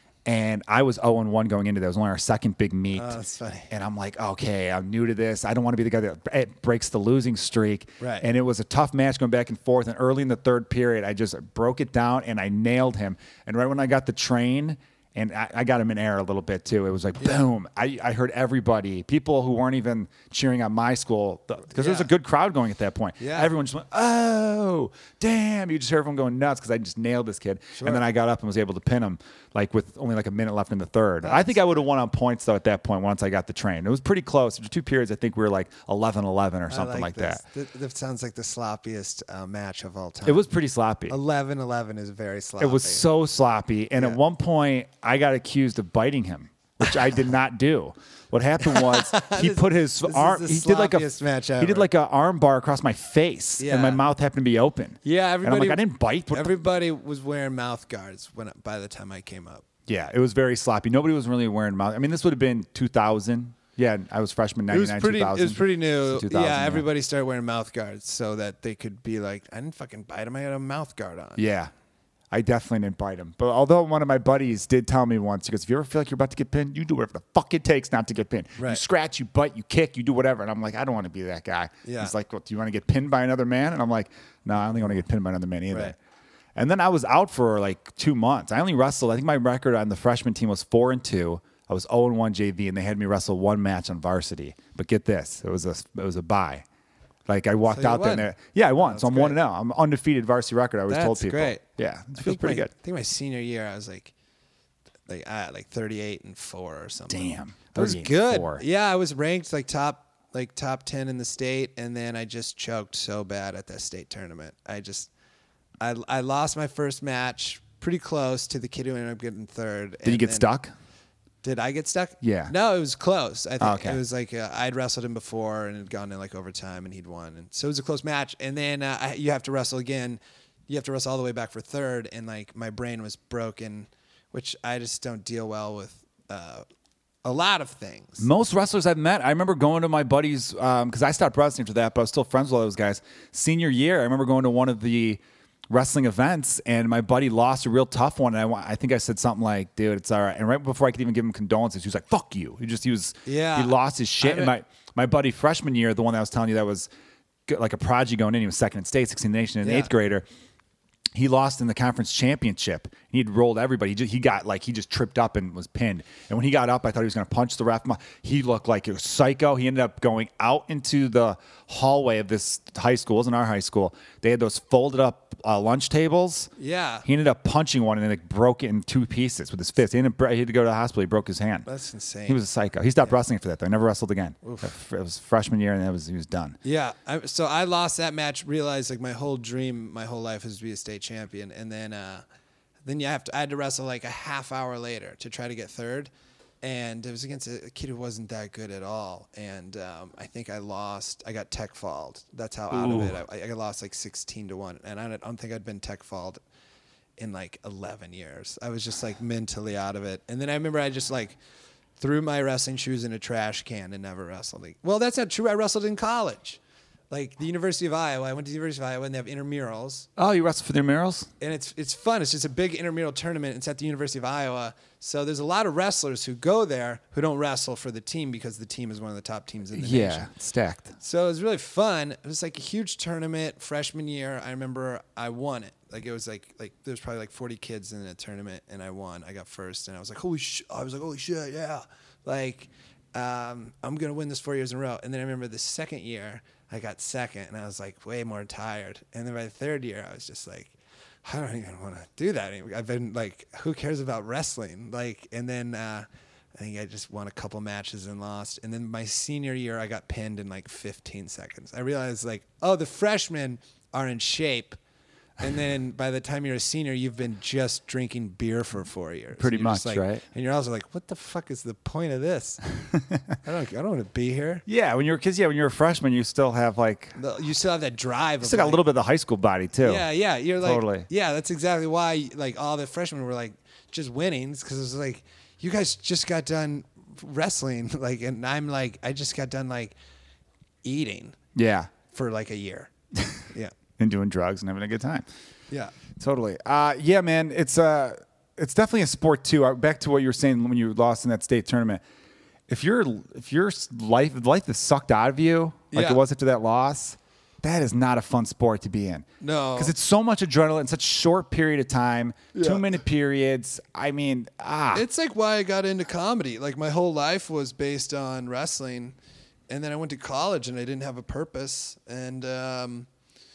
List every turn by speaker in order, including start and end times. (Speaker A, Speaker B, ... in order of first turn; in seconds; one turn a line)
Speaker A: 0.3-3.2
Speaker B: 2.9-3.7
Speaker A: 3.7-37.4
Speaker B: 8.0-8.2
Speaker B: 21.7-22.1
Speaker B: 23.2-23.5
Speaker B: 27.8-28.0
Speaker B: 31.2-31.8
Speaker B: 36.7-40.5
Speaker A: 40.2-41.2
Speaker B: 41.1-43.0
Speaker A: 42.6-56.5
Speaker B: 48.6-51.9
Speaker B: 53.6-54.0
Speaker B: 55.0-59.6
Speaker A: 59.9-66.9
Speaker B: 64.7-71.4
Speaker A: 71.4-71.7
Speaker A: 72.3-86.0
Speaker B: 78.6-78.8
Speaker B: 81.8-82.1
Speaker A: 86.6-96.7
Speaker A: 97.3-102.7
Speaker B: 97.6-99.4
Speaker B: 100.9-101.6
Speaker B: 102.2-104.1
Speaker B: 105.1-115.1
Speaker A: 107.1-108.6
Speaker B: 115.8-120.5
Speaker A: 120.0-120.7
Speaker B: 121.4-136.7
Speaker A: 122.2-122.5
Speaker A: 123.6-124.0
Speaker B: 137.2-138.3
Speaker A: 138.2-156.9
Speaker B: 153.3-154.5
Speaker A: 157.5-160.2
Speaker B: 159.6-159.9
Speaker A: 161.2-176.5
Speaker B: 176.6-177.1
Speaker A: 177.1-181.7
Speaker B: 181.7-182.4
Speaker A: 182.3-186.6
Speaker B: 184.4-184.7
Speaker B: 186.6-192.2
Speaker B: 192.9-196.1
Speaker B: 196.6-206.4
Speaker A: 202.7-203.2
Speaker B: 207.2-211.4
Speaker B: 212.0-216.6
Speaker B: 217.1-220.1
Speaker A: 220.2-221.3
Speaker B: 221.4-230.3
Speaker A: 229.8-230.9
Speaker B: 231.0-264.8
Speaker B: 265.4-272.6
Speaker A: 269.4-270.2
Speaker B: 273.4-274.6
Speaker A: 274.7-277.2
Speaker B: 277.2-278.8
Speaker A: 278.4-280.1
Speaker B: 279.8-289.9
Speaker A: 280.6-281.1
Speaker B: 290.8-291.4
Speaker A: 291.6-291.9
Speaker B: 292.1-292.9
Speaker A: 294.0-295.3
Speaker A: 296.2-302.0
Speaker A: 302.7-315.1
Speaker B: 305.9-306.2
Speaker B: 309.4-309.9
Speaker B: 312.5-312.9
Speaker B: 314.9-319.2
Speaker B: 319.7-323.1